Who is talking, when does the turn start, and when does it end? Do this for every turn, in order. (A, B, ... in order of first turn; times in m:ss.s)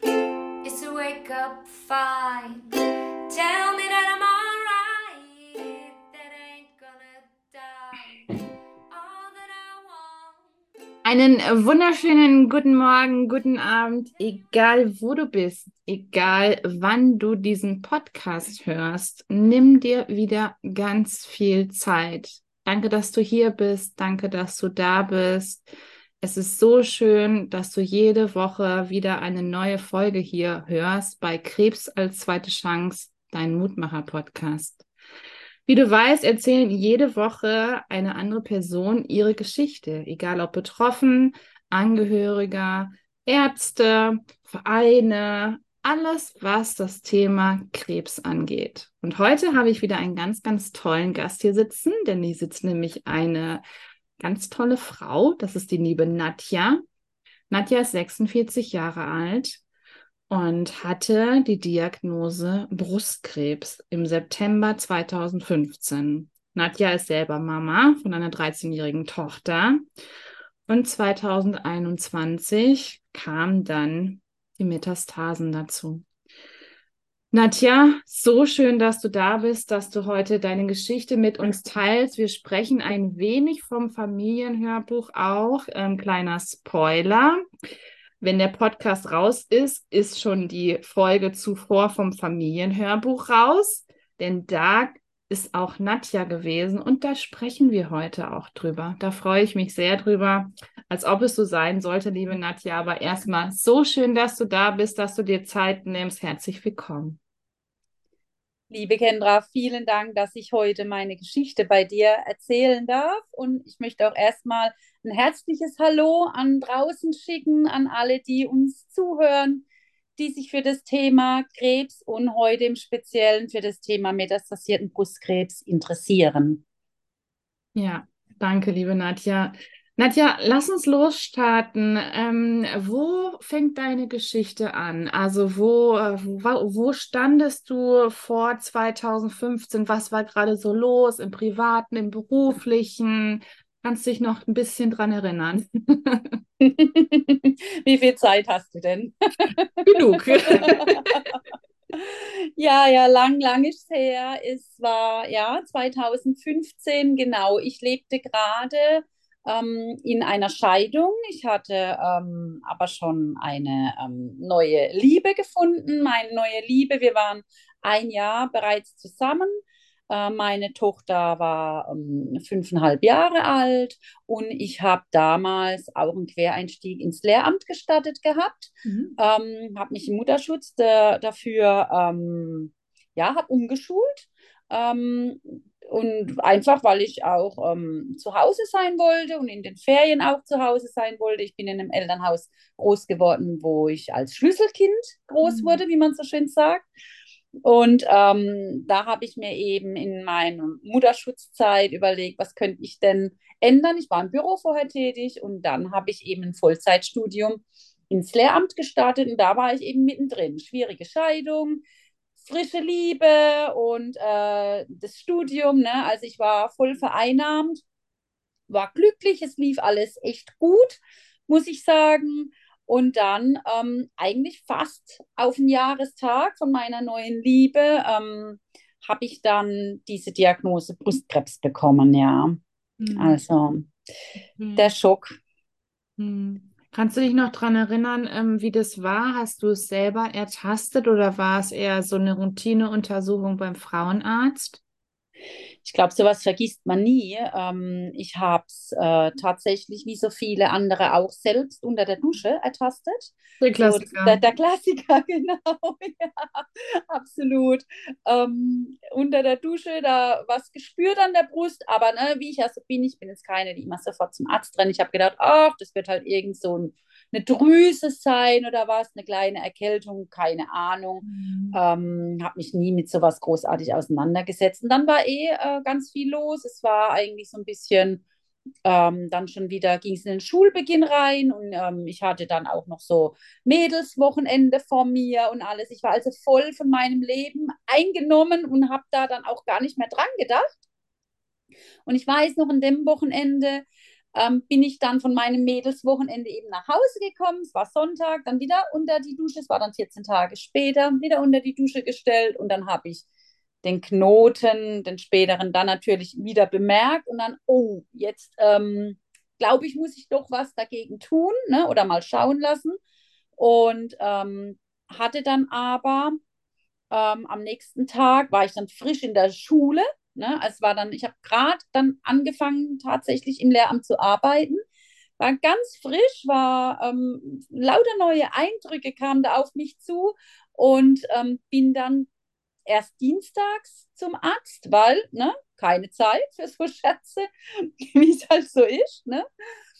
0:00.6-0:02.7 A
0:03.3-0:10.5 A
0:11.0-0:25.7 B
0:26.2-0:34.8 B
0:35.7-0:53.6 B
0:54.2-0:56.8 B
0:57.5-0:59.6 B
1:00.3-1:09.9 B
1:10.7-1:16.0 B
1:17.3-1:27.4 B
1:28.2-1:47.2 B
1:48.7-1:59.6 C
2:00.2-2:06.6 C
2:07.7-2:26.4 B
2:26.6-2:31.0 C
2:29.8-2:31.4 B
2:31.9-3:16.9 C
2:58.8-2:59.2 B
3:15.4-3:15.8 B
3:17.6-3:31.8 C
3:32.4-3:37.8 C
3:38.7-3:52.6 C
3:53.0-3:53.4 B
3:53.1-3:53.9 C
3:54.6-3:54.9 B
3:54.8-3:55.4 C
3:56.2-4:04.8 B
4:05.8-4:38.2 C
4:13.6-4:14.4 B
4:31.2-4:31.8 B
4:38.8-4:50.7 C
4:52.0-4:53.8 C
4:54.3-5:03.2 C
5:03.8-5:13.0 C
5:13.6-5:16.4 C
5:17.1-5:24.8 C
5:25.4-5:32.3 C
5:32.8-5:39.4 C